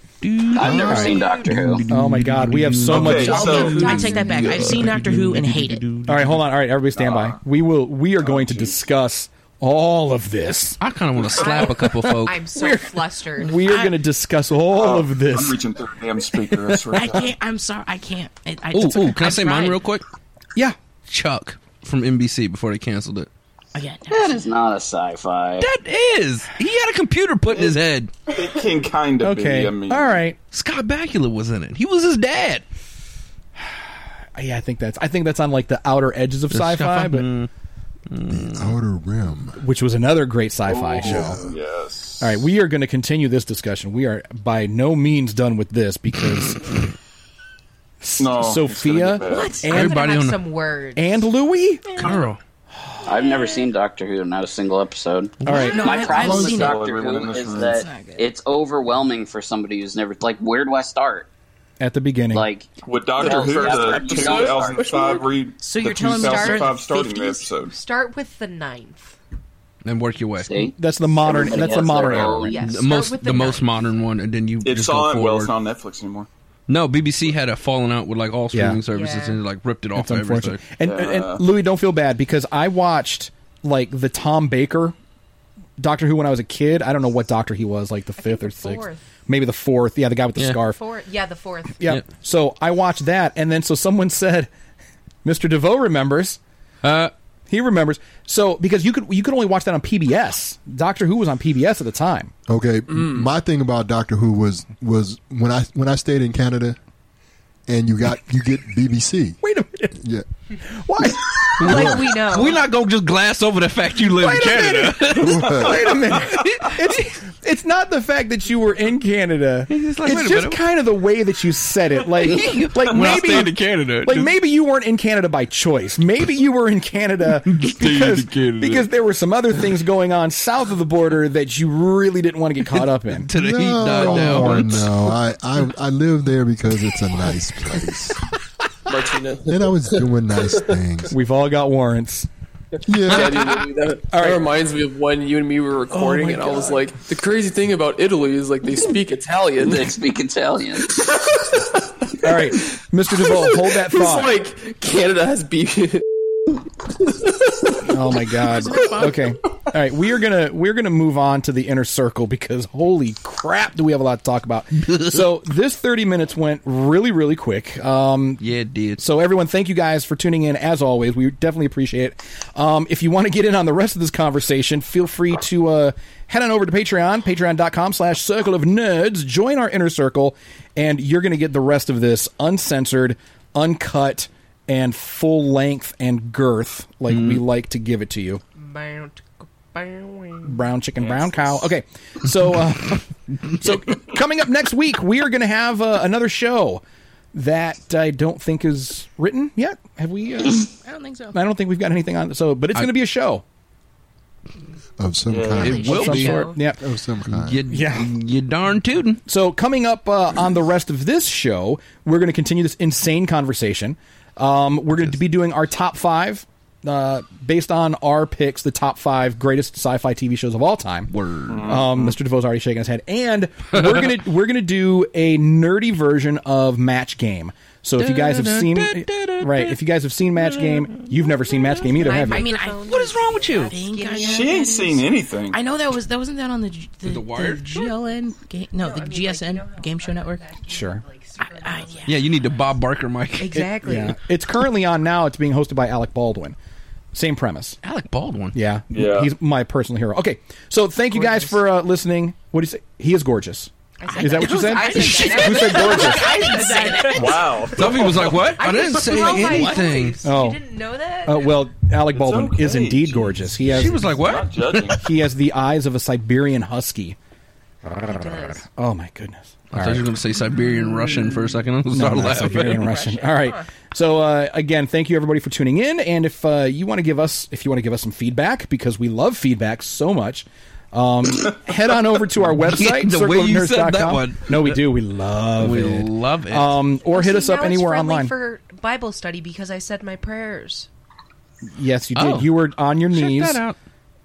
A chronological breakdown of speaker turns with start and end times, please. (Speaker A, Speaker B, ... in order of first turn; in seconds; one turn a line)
Speaker A: 0.2-6.5
Speaker B: 0.5-1.8
Speaker C: 0.6-1.8
Speaker D: 0.8-1.1
Speaker D: 1.9-3.9
Speaker E: 2.9-4.8
Speaker F: 3.0-5.9
Speaker D: 6.1-10.8
Speaker E: 7.0-7.4
Speaker E: 8.3-8.8
Speaker A: 10.8-12.4
Speaker E: 11.2-11.6
Speaker C: 11.3-13.6
Speaker D: 11.7-15.6
Speaker F: 13.6-14.0
Speaker E: 14.7-17.3
Speaker F: 16.9-19.8
Speaker A: 18.7-20.0
Speaker A: 21.1-23.3
Speaker F: 23.7-24.5
Speaker B: 24.1-25.7
Speaker A: 25.6-28.1
Speaker E: 28.3-30.2
Speaker D: 29.2-30.4
Speaker A: 30.5-32.6
Speaker D: 34.4-37.3
Speaker A: 36.5-37.5
Speaker A: 38.1-38.8
Speaker G: 38.2-39.6
Speaker D: 39.6-41.4
Speaker E: 40.7-42.5
Speaker G: 41.0-41.5
Speaker D: 42.2-46.7
Speaker D: 48.0-50.0
Speaker E: 48.2-49.6
Speaker F: 49.2-49.6
Speaker C: 49.7-51.3
Speaker A: 49.7-50.4
Speaker D: 51.0-51.8
Speaker F: 51.9-52.2
Speaker A: 52.0-52.4
Speaker B: 53.0-61.3
Speaker D: 55.5-55.8
Speaker F: 55.5-56.8
Speaker E: 56.0-57.9
Speaker F: 57.7-58.3
Speaker D: 61.8-62.5
Speaker B: 62.3-65.2
Speaker E: 62.8-67.8
Speaker H: 63.7-64.2
Speaker F: 65.1-66.8
Speaker C: 66.1-69.2
Speaker A: 69.8-70.6
Speaker B: 70.4-72.7
Speaker D: 70.8-72.6
Speaker C: 72.0-73.7
Speaker A: 72.6-75.5
Speaker E: 74.6-76.3
Speaker A: 76.7-80.6
Speaker D: 78.5-78.8
Speaker C: 78.9-79.4
Speaker D: 80.0-85.0
Speaker E: 80.8-81.5
Speaker D: 85.8-90.8
Speaker C: 88.2-89.0
Speaker C: 90.6-91.8
Speaker D: 91.8-94.5
Speaker D: 95.2-96.4
Speaker A: 96.8-97.1
Speaker D: 97.5-102.3
Speaker G: 102.5-106.8
Speaker H: 102.9-103.3
Speaker G: 107.7-109.4
Speaker D: 109.4-110.0
Speaker G: 110.0-110.2
Speaker D: 110.7-111.8
Speaker C: 111.6-112.6
Speaker A: 111.6-116.8
Speaker G: 111.7-112.0
Speaker D: 114.2-133.3
Speaker G: 115.1-115.8
Speaker A: 119.7-120.6
Speaker A: 122.3-124.3
Speaker E: 123.1-123.4
Speaker A: 127.5-128.9
Speaker A: 133.1-135.0
Speaker G: 133.4-138.2
Speaker H: 138.9-140.8
Speaker G: 139.5-141.1
Speaker D: 141.1-142.3
Speaker G: 142.9-143.5
Speaker H: 143.0-150.0
Speaker A: 143.1-143.7
Speaker D: 144.1-144.4
Speaker D: 145.9-146.8
Speaker B: 149.6-151.2
Speaker H: 152.1-152.7
Speaker D: 152.2-154.4
Speaker H: 153.2-157.8
Speaker D: 157.8-168.4
Speaker F: 158.4-159.3
Speaker A: 164.9-165.2
Speaker A: 168.4-169.0
Speaker D: 169.0-188.4
Speaker A: 187.1-187.4
Speaker C: 188.6-190.6
Speaker D: 190.4-196.8
Speaker E: 191.0-191.6
Speaker D: 197.3-200.6
Speaker F: 200.8-201.4
Speaker D: 201.3-203.4
Speaker G: 205.0-206.0
Speaker E: 205.3-206.1
Speaker A: 205.6-206.6
Speaker F: 205.6-206.6
Speaker D: 205.8-206.8
Speaker G: 206.8-207.6
Speaker A: 207.3-209.2
Speaker D: 207.7-208.1
Speaker D: 209.3-221.1
Speaker A: 221.1-221.8
Speaker E: 221.5-222.2
Speaker D: 221.7-232.5
Speaker A: 228.0-229.8
Speaker A: 230.4-230.9
Speaker C: 231.9-234.7
Speaker F: 232.0-240.5
Speaker A: 232.8-233.8
Speaker E: 234.2-235.6
Speaker A: 237.0-238.0
Speaker C: 238.8-242.7
Speaker D: 240.7-241.0
Speaker F: 241.4-242.3
Speaker A: 242.1-243.6
Speaker C: 243.4-244.2
Speaker D: 243.5-246.6
Speaker D: 247.1-247.8
Speaker A: 247.8-248.6
Speaker D: 248.5-256.4
Speaker E: 248.9-249.3
Speaker C: 251.2-251.6
Speaker C: 254.0-261.6
Speaker F: 254.1-257.8
Speaker E: 257.1-258.3
Speaker A: 257.7-260.2
Speaker F: 258.7-260.0
Speaker D: 260.2-260.6
Speaker D: 261.3-264.1
Speaker E: 262.1-265.1
Speaker A: 263.7-265.0
Speaker D: 265.0-267.2
Speaker D: 267.9-270.1
Speaker C: 268.1-268.6
Speaker A: 269.7-272.9
Speaker D: 271.9-288.4
Speaker C: 272.3-273.7
Speaker A: 282.6-284.8
Speaker A: 285.6-286.8
Speaker C: 287.0-290.9
Speaker D: 291.7-293.6
Speaker A: 292.2-292.5
Speaker A: 293.1-293.8